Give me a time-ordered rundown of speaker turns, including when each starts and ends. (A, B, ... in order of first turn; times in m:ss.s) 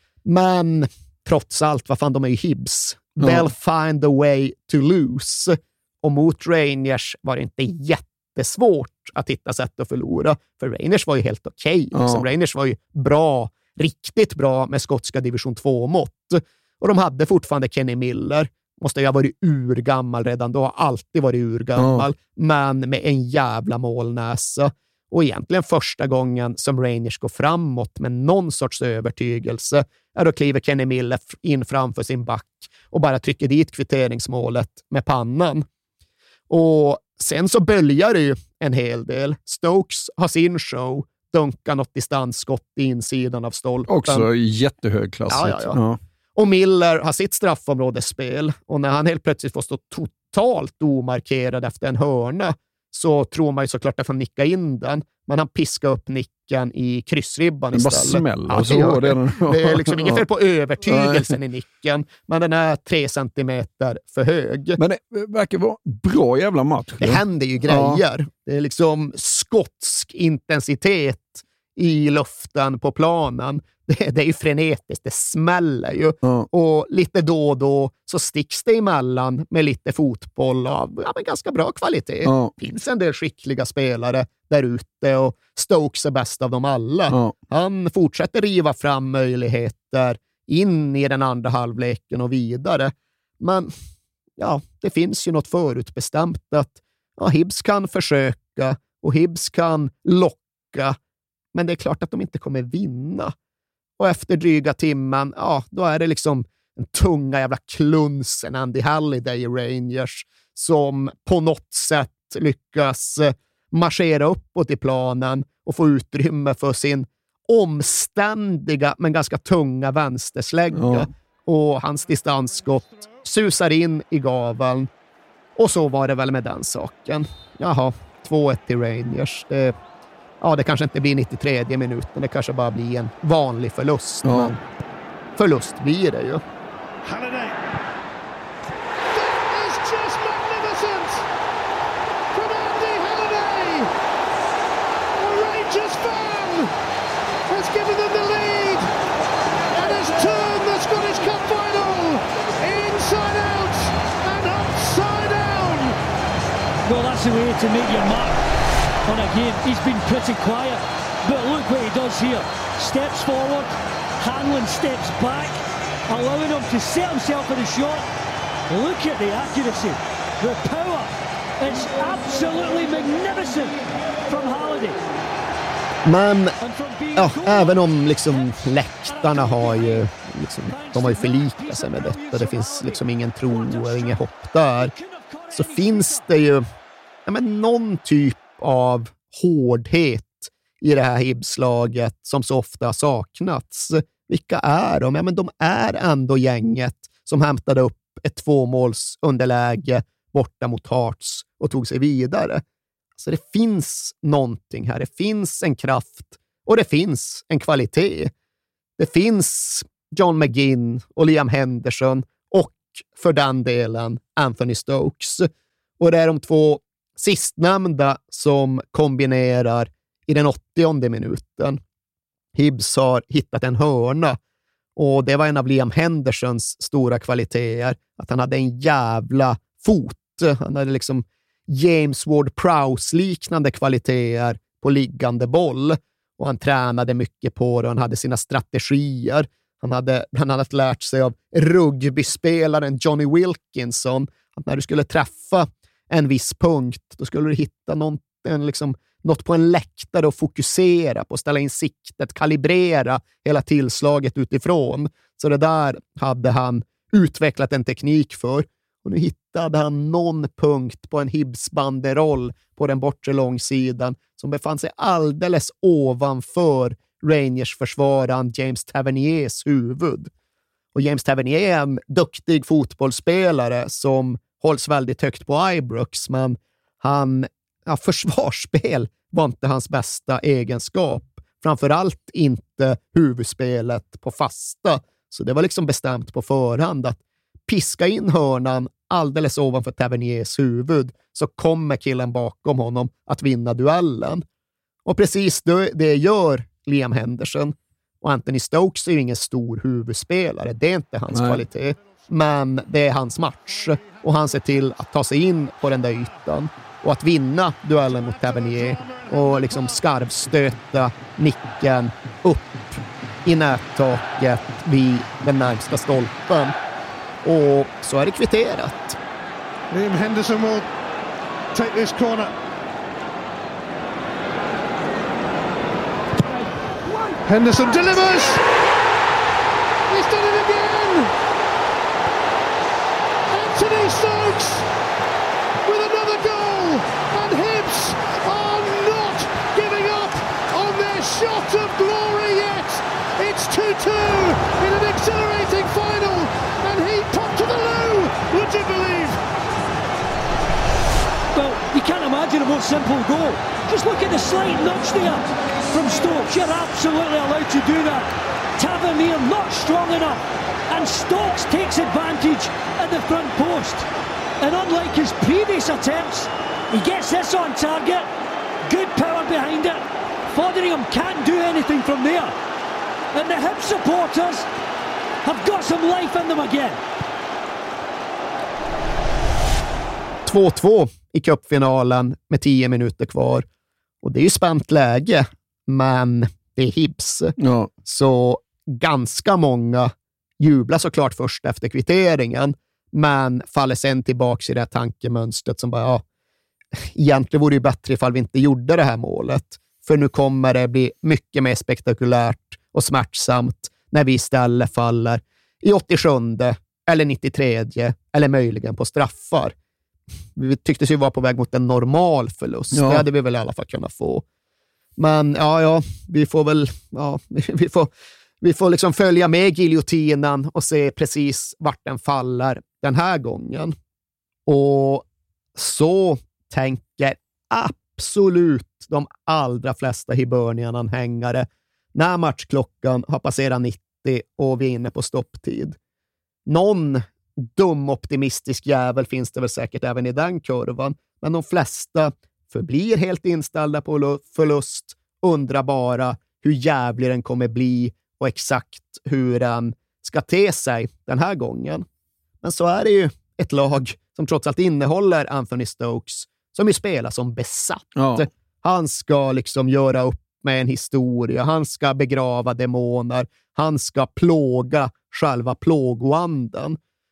0:00.2-0:35.7 A
0:03.2-0:03.5 B
0:11.9-0:12.2 B
0:21.8-0:22.1 B
0:36.5-0:44.3 A
0:43.9-0:46.0 B
0:45.3-0:45.8 A
0:46.4-1:04.8 A
0:57.7-1:00.2 B
1:00.9-1:01.4 B
1:04.8-1:08.0 B
1:07.0-1:33.7 A
1:22.2-1:22.5 B
1:27.1-1:27.3 B
1:34.4-1:41.0 A
1:41.5-1:43.3 A
1:44.0-2:04.9 A
2:00.7-2:01.1 B
2:05.6-2:09.8 A
2:10.4-2:14.6 A
2:14.2-2:14.5 B
2:15.4-2:16.4 A
2:17.0-2:17.6 C
2:19.1-2:21.3 C
2:22.3-2:23.9 C
2:25.1-2:26.7 C
2:27.5-2:28.9 C
2:29.7-2:36.0 C
2:36.8-2:38.4 D
2:39.1-2:48.0 D
2:48.7-2:55.0 D
2:56.0-2:56.6 A
2:56.6-3:00.1 D
2:57.2-3:04.9 A
3:00.7-3:04.3 D
3:04.8-3:06.3 D
3:05.5-3:06.6 A
3:07.3-3:22.6 A
3:23.2-3:28.3 A
3:29.0-3:35.5 A
3:36.0-3:41.8 A
3:42.6-3:44.4 A
3:45.0-4:30.3 A
4:30.9-4:54.4 A
4:55.1-5:16.8 A
5:01.3-5:01.6 B
5:08.2-5:09.8 C
5:17.4-5:19.2 A
5:19.9-5:20.9 C
5:21.7-5:22.5 C
5:27.4-5:28.6 C
5:30.1-5:31.3 C
5:33.5-5:34.9 C
5:35.8-5:49.4 C
5:51.5-6:04.1 D
6:04.6-6:08.3 D
6:08.8-6:12.5 D
6:13.3-6:14.7 D
6:15.4-6:17.0 D
6:20.5-6:23.6 A
6:24.2-6:36.2 A
6:27.6-6:27.9 B
6:37.0-6:49.7 A
6:50.6-6:54.4 A
6:52.9-6:53.2 B
6:55.2-7:03.9 A
7:04.7-7:05.2 A
7:05.8-7:16.0 A
7:16.7-7:32.0 A
7:32.6-7:47.0 A
7:38.2-7:38.5 B